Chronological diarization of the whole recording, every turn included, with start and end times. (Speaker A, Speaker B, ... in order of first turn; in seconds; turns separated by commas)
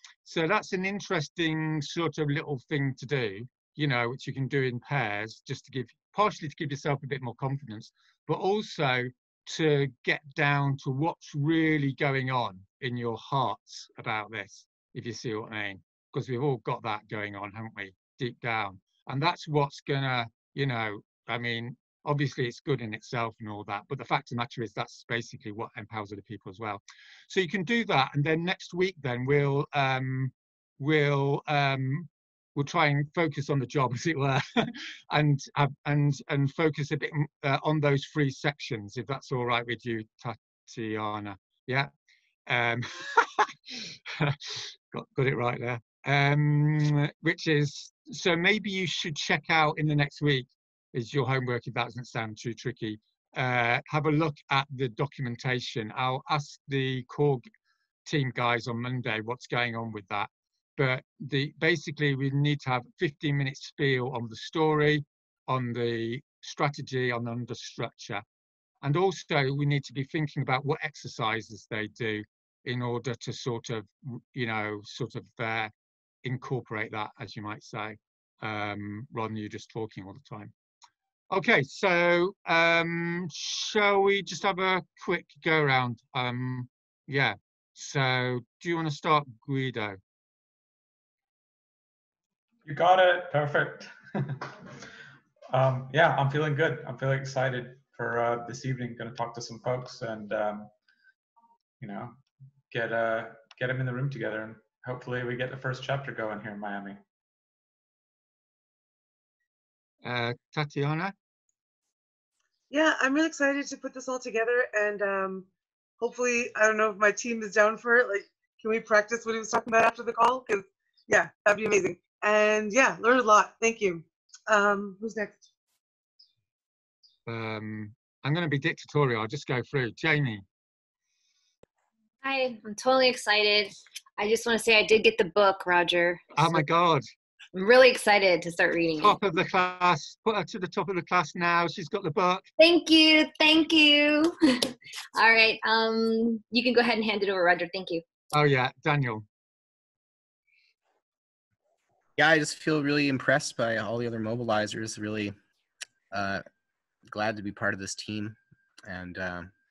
Speaker A: 0.2-41.9, Speaker A: 42.5-57.5, Speaker A: 58.0-68.2, Speaker A: 68.8-75.7, Speaker A: 76.2-80.5, Speaker A: 81.3-90.0, Speaker B: 92.7-94.7, Speaker B: 95.5-100.7, Speaker B: 101.8-102.2, Speaker B: 102.7-107.0, Speaker A: 110.0-111.1, Speaker C: 112.7-115.5, Speaker C: 116.0-125.5, Speaker A: 127.3-130.4, Speaker D: 132.2-136.6, Speaker A: 136.4-137.1, Speaker D: 137.5-139.2, Speaker A: 139.0-142.4, Speaker D: 142.6-148.0, Speaker A: 148.3-149.2, Speaker E: 152.2-155.4, Speaker E: 156.1-156.4, Speaker E: 157.1-159.5